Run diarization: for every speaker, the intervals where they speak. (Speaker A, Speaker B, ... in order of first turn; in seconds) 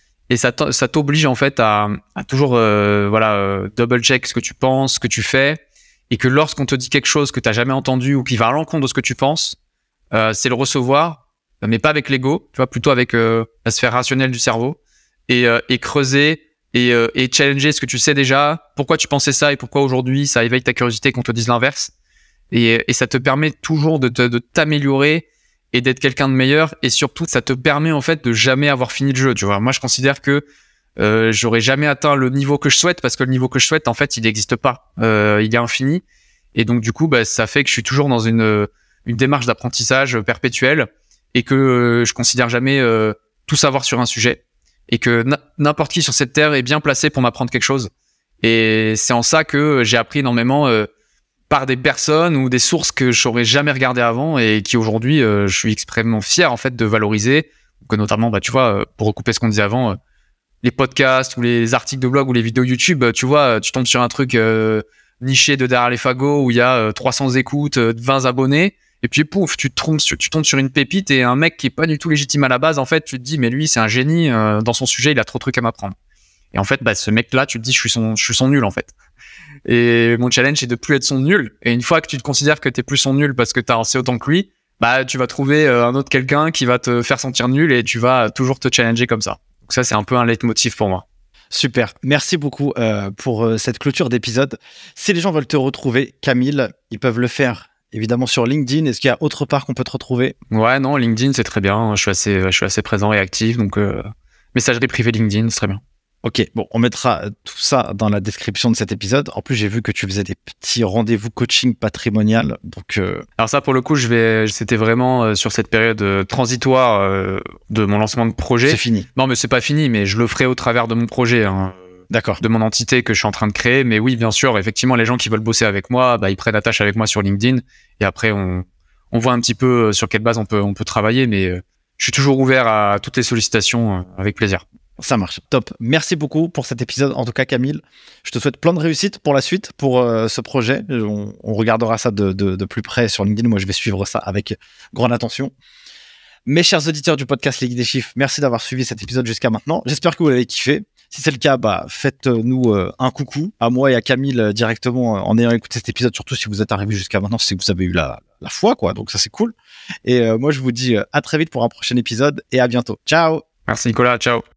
Speaker A: 0.3-9.6, 10.1-21.9, 22.5-30.4, 31.0-36.0, 36.5-47.9, 48.4-50.9, 51.5-60.0, 60.6-76.0, 76.5-78.9, 79.7-91.0, 100.5-105.8, 113.4-121.8, 122.4-134.6, 163.7-164.4
Speaker B: 91.5-100.3, 106.2-113.2, 118.7-119.1, 122.1-122.4, 135.0-145.5, 146.5-159.5, 160.1-163.4